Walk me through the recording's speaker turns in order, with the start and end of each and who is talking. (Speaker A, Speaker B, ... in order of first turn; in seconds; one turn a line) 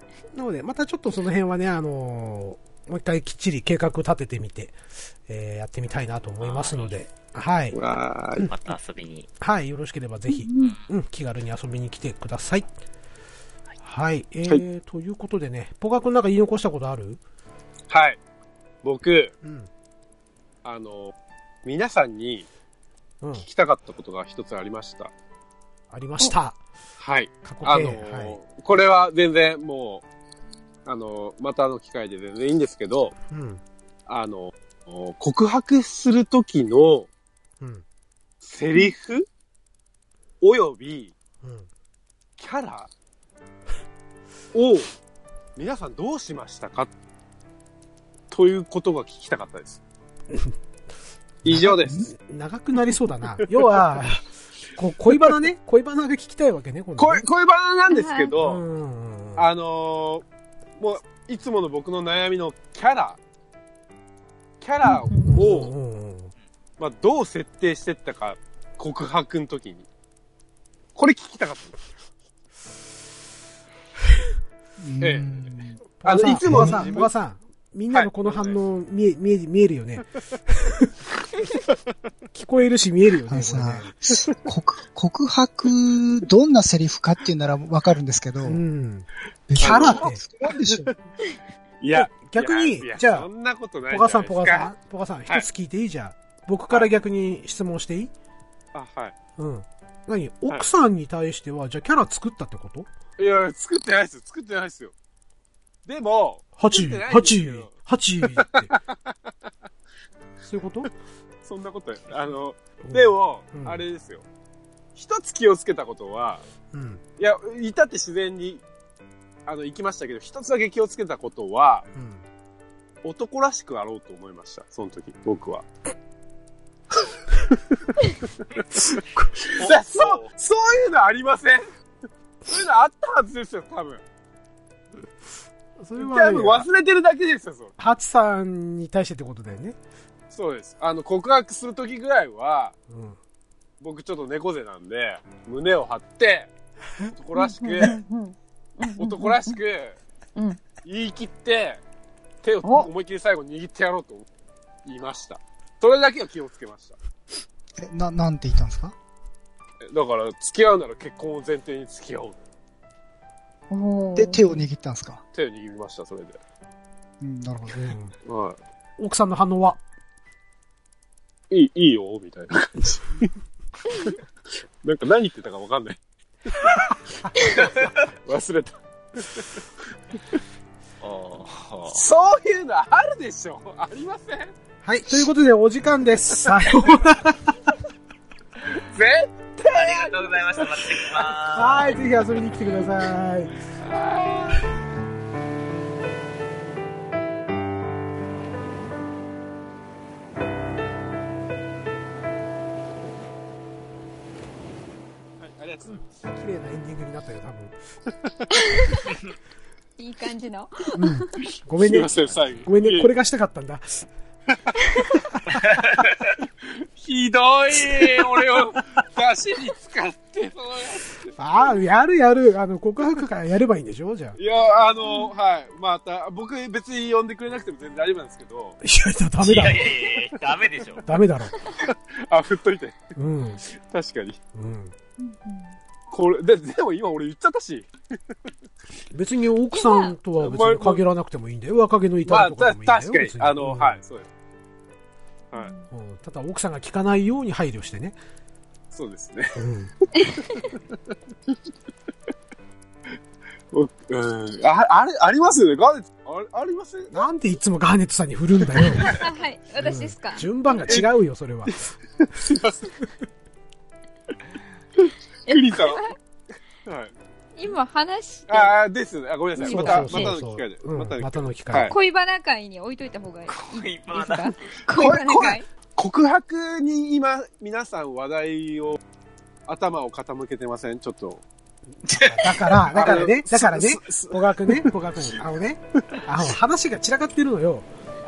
Speaker A: 0.3-7.8
Speaker B: 6.4-7.0
Speaker C: 7.7-8.5
Speaker B: 8.4-9.3
Speaker A: 9.4-12.7
Speaker D: 10.3-10.8
Speaker B: 10.6-10.9
Speaker A: 13.8-17.2
Speaker C: 17.9-18.2
Speaker C: 18.8-19.3
Speaker A: 19.4-19.7
Speaker C: 20.6-21.1
Speaker C: 21.6-22.5
Speaker A: 23.2-23.5
Speaker C: 23.4-25.1
Speaker A: 25.9-26.6
Speaker C: 27.0-30.0
Speaker A: 27.4-28.4
Speaker C: 30.9-33.1
Speaker A: 33.3-33.6
Speaker C: 34.1-37.1
Speaker C: 38.4-39.3
Speaker C: 40.4-41.1
Speaker A: 41.4-41.7
Speaker C: 42.4-42.9
Speaker C: 44.5-44.9
Speaker C: 45.6-46.9
Speaker C: 48.3-49.8
Speaker A: 51.4-57.2
Speaker C: 51.5-52.1
Speaker C: 57.0-58.6
Speaker D: 57.9-58.4
Speaker A: 58.4-59.5
Speaker C: 59.4-60.2
Speaker C: 60.8-63.2
Speaker C: 64.6-65.7
Speaker D: 64.8-65.5
Speaker A: 65.3-66.3
Speaker C: 66.8-69.9
Speaker C: 71.0-71.8
Speaker E: 74.8-75.8
Speaker C: 75.0-75.3
Speaker A: 76.0-80.9
Speaker C: 76.0-77.1
Speaker E: 76.5-76.9
Speaker C: 77.9-78.6
Speaker A: 82.3-84.0
Speaker E: 83.3-88.6
Speaker A: 88.4-90.2
Speaker E: 89.5-90.9
Speaker C: 89.6-90.1
Speaker C: 90.6-91.0
Speaker C: 91.8-94.7
Speaker A: 91.9-93.3
Speaker A: 93.9-98.1
Speaker C: 98.7-99.2
Speaker A: 99.4-102.9
Speaker C: 103.2-104.9
Speaker C: 105.8-107.7
Speaker A: 106.6-108.7
Speaker C: 108.3-109.3
Speaker A: 110.4-110.9
Speaker C: 111.4-114.2
Speaker A: 112.8-113.8
Speaker C: 115.0-116.4
Speaker A: 116.7-117.0
Speaker C: 117.2-118.6
Speaker C: 119.5-121.9
Speaker A: 122.0-122.2
Speaker C: 123.0-125.7
Speaker C: 128.9-131.7
Speaker B: 129.6-130.2
Speaker C: 132.4-134.0
Speaker A: 135.8-136.7
Speaker C: 136.0-137.7
Speaker A: 137.8-139.8
Speaker C: 140.3-142.8
Speaker A: 142.9-143.2
Speaker C: 143.8-146.5
Speaker C: 147.1-148.0
Speaker D: 147.3-149.6
Speaker C: 149.0-150.0
Speaker D: 150.4-150.6
Speaker C: 150.8-151.8
Speaker C: 152.4-154.3
Speaker D: 152.6-152.9
Speaker C: 154.8-157.0
Speaker E: 157.8-158.9
Speaker C: 159.8-162.4
Speaker D: 163.7-164.6
Speaker E: 164.2-165.2
Speaker C: 165.3-166.4
Speaker E: 167.2-167.9
Speaker A: 167.7-168.1
Speaker C: 168.2-168.6
Speaker A: 169.0-169.8
Speaker C: 171.5-173.3
Speaker C: 174.8-176.0
Speaker C: 177.3-179.5
Speaker B: 181.0-182.0
Speaker C: 181.9-184.5
Speaker A: 184.8-187.7
Speaker C: 188.7-191.2
Speaker B: 189.7-192.0
Speaker A: 191.5-193.6
Speaker C: 193.8-194.6
Speaker C: 205.4-206.1
Speaker A: 206.0-207.7
Speaker D: 208.5-209.0
Speaker D: 210.0-211.4
Speaker A: 210.9-212.1
Speaker C: 211.8-213.1
Speaker B: 212.2-212.7
Speaker A: 212.7-214.1
Speaker C: 214.5-215.0
Speaker A: 215.1-215.6
Speaker B: 215.5-216.3
Speaker C: 216.6-221.3
Speaker A: 221.4-224.4
Speaker C: 224.4-228.8
Speaker D: 225.0-225.3
Speaker A: 228.8-229.9
Speaker B: 229.4-231.0
Speaker A: 231.1-231.6
Speaker C: 231.8-233.1
Speaker A: 233.2-233.6
Speaker C: 233.7-234.4
Speaker A: 234.5-234.9
Speaker D: 235.2-235.8
Speaker C: 236.1-237.9
Speaker A: 239.1-244.0
Speaker D: 239.8-240.1
Speaker C: 240.4-241.0
Speaker C: 242.3-244.3
Speaker D: 245.5-245.9
Speaker A: 245.9-248.2
Speaker C: 248.9-249.6
Speaker A: 249.6-249.9
Speaker D: 250.2-250.5
Speaker C: 250.5-250.8
Speaker C: 253.7-257.3
Speaker A: 257.1-259.2
Speaker D: 259.0-260.9
Speaker A: 259.8-261.9
Speaker C: 262.2-262.9
Speaker D: 265.5-266.2
Speaker C: 265.5-266.0
Speaker C: 266.9-267.1
Speaker D: 267.6-268.8
Speaker C: 268.5-271.9
Speaker D: 269.6-270.4
Speaker A: 269.7-271.9
Speaker D: 271.9-275.6
Speaker B: 273.5-274.8
Speaker C: 274.9-279.0
Speaker C: 279.7-281.4
Speaker B: 282.1-282.9
Speaker A: 282.1-287.9
Speaker C: 282.9-284.9